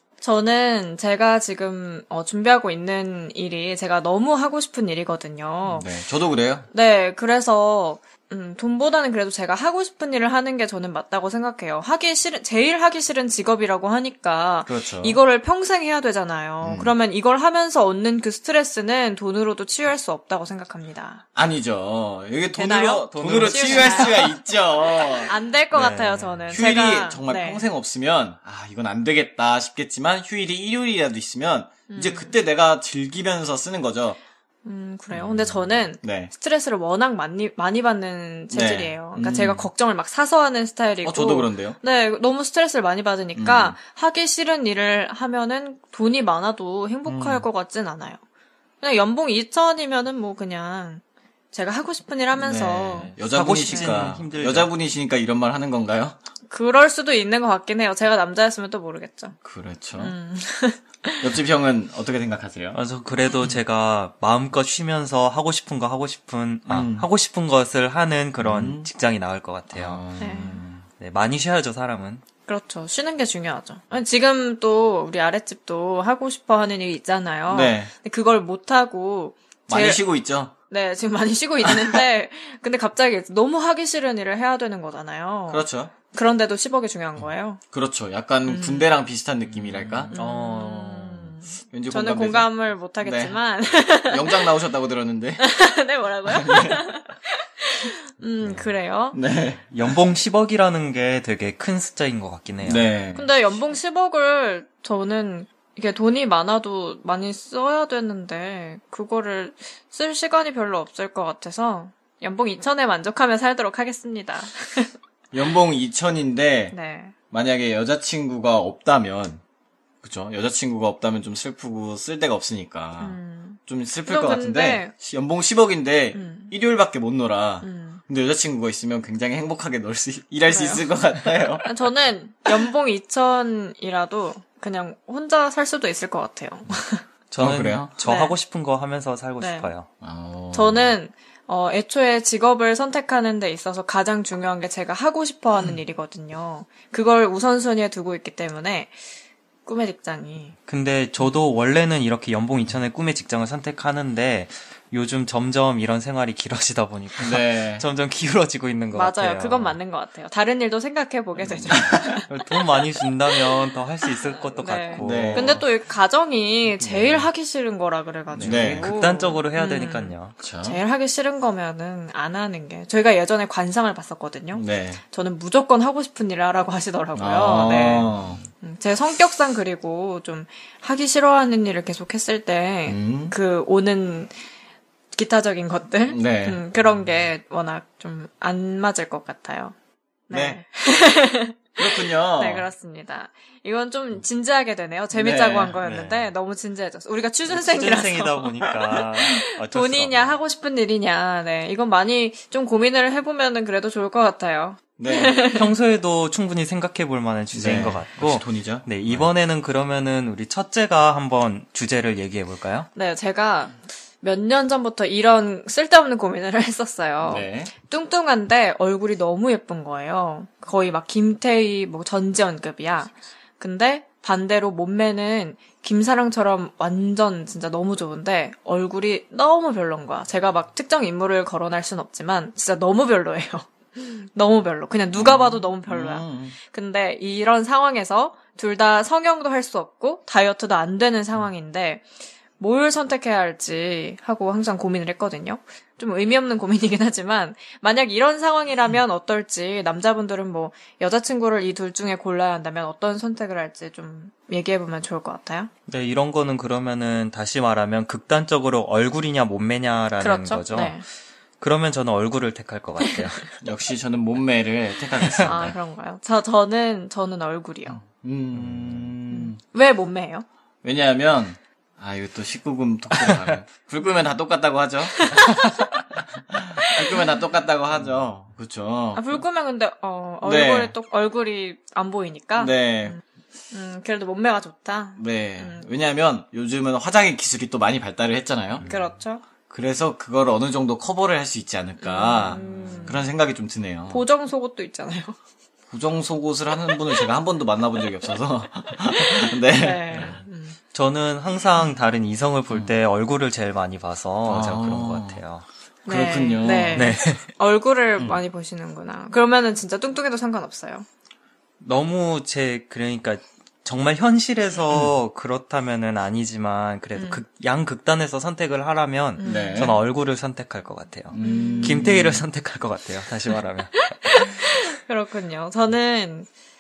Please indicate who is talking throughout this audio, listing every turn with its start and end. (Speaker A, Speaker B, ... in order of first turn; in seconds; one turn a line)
Speaker A: 0.2-5.9
Speaker B: 5.7-6.7
Speaker A: 6.7-21.2
Speaker B: 14.7-15.2
Speaker B: 16.6-17.0
Speaker B: 21.4-25.4
Speaker A: 22.5-24.4
Speaker C: 22.8-24.4
Speaker A: 24.9-27.7
Speaker C: 25.7-26.6
Speaker B: 26.5-34.2
Speaker A: 31.9-32.3
Speaker A: 34.6-48.2
Speaker B: 35.1-36.3
Speaker B: 38.5-39.7
Speaker B: 41.0-41.8
Speaker B: 43.4-43.8
Speaker B: 47.0-47.5
Speaker A: 48.8-53.2
Speaker B: 52.4-56.2
Speaker C: 53.1-54.7
Speaker A: 53.7-54.1
Speaker A: 56.5-59.4
Speaker B: 59.4-60.1
Speaker A: 60.0-61.3
Speaker B: 61.2-62.8
Speaker C: 62.7-70.0
Speaker B: 66.7-67.1
Speaker B: 68.4-68.9
Speaker B: 69.7-70.8
Speaker A: 70.2-70.6
Speaker C: 71.0-72.2
Speaker A: 72.5-80.1
Speaker B: 77.5-77.9
Speaker B: 79.7-80.5
Speaker A: 80.7-87.6
Speaker B: 81.7-82.0
Speaker B: 85.5-85.9
Speaker B: 87.7-90.2
Speaker A: 88.5-89.0
Speaker C: 89.5-91.3
Speaker A: 90.1-94.5
Speaker B: 91.7-95.5
Speaker A: 95.4-99.2
Speaker B: 96.3-96.9
Speaker B: 99.1-100.1
Speaker C: 99.7-102.9
Speaker B: 102.6-103.3
Speaker A: 103.1-114.9
Speaker B: 115.3-116.8
Speaker A: 116.7-117.1
Speaker B: 117.3-119.4
Speaker B: 120.0-131.7
Speaker A: 123.0-124.9
Speaker A: 126.1-126.5
Speaker A: 127.6-128.0
Speaker A: 130.5-130.9
Speaker A: 131.6-137.1
Speaker C: 137.3-139.9
Speaker B: 137.4-137.9
Speaker A: 138.0-138.4
Speaker A: 139.4-139.7
Speaker B: 140.0-141.0
Speaker A: 140.5-149.1
Speaker A: 149.7-150.6
Speaker C: 150.7-159.8
Speaker B: 157.2-157.9
Speaker A: 158.9-162.3
Speaker C: 161.5-165.6
Speaker B: 161.7-162.2
Speaker A: 164.4-184.4
Speaker B: 165.0-165.6
Speaker C: 166.8-167.3
Speaker C: 168.3-170.4
Speaker B: 168.4-168.9
Speaker B: 170.4-170.8
Speaker B: 174.5-175.0
Speaker B: 177.2-178.4
Speaker B: 182.9-183.4
Speaker A: 185.1-189.8
Speaker B: 186.1-186.6
Speaker A: 190.3-198.5
Speaker B: 190.3-190.6
Speaker B: 191.8-192.7
Speaker B: 195.1-195.8
Speaker C: 195.8-196.3
Speaker C: 197.5-200.4
Speaker A: 199.2-205.7
Speaker B: 205.0-205.5
Speaker C: 205.5-212.9
Speaker B: 207.5-209.3
Speaker A: 212.9-255.7
Speaker B: 217.2-217.7
Speaker B: 235.1-236.6
Speaker C: 255.9-261.0
Speaker A: 260.2-261.1
Speaker C: 261.6-263.6
Speaker B: 263.6-265.8
Speaker C: 265.3-265.5
Speaker A: 265.4-268.0
Speaker B: 268.1-269.6
Speaker C: 268.5-269.1
Speaker A: 269.3-270.4
Speaker B: 270.8-275.3
Speaker A: 275.1-275.7
Speaker C: 275.5-275.8
Speaker B: 276.5-279.4
Speaker A: 276.8-277.3
Speaker A: 279.1-283.2
Speaker B: 280.4-280.9
Speaker B: 282.6-283.2
Speaker A: 283.7-285.9
Speaker B: 285.2-288.9
Speaker A: 288.8-289.4
Speaker B: 289.7-294.3
Speaker A: 292.0-293.2
Speaker C: 292.5-293.0
Speaker A: 294.1-295.4
Speaker B: 295.9-300.4
Speaker A: 299.1-300.8
Speaker C: 300.9-305.7
Speaker B: 304.5-305.4
Speaker B: 306.1-307.1
Speaker A: 306.1-311.1
Speaker C: 306.9-307.5
Speaker B: 308.2-308.4
Speaker C: 311.8-324.6
Speaker A: 317.2-317.4
Speaker A: 319.4-319.9
Speaker B: 319.4-320.0
Speaker B: 321.3-322.4
Speaker A: 321.4-322.1
Speaker A: 324.0-326.5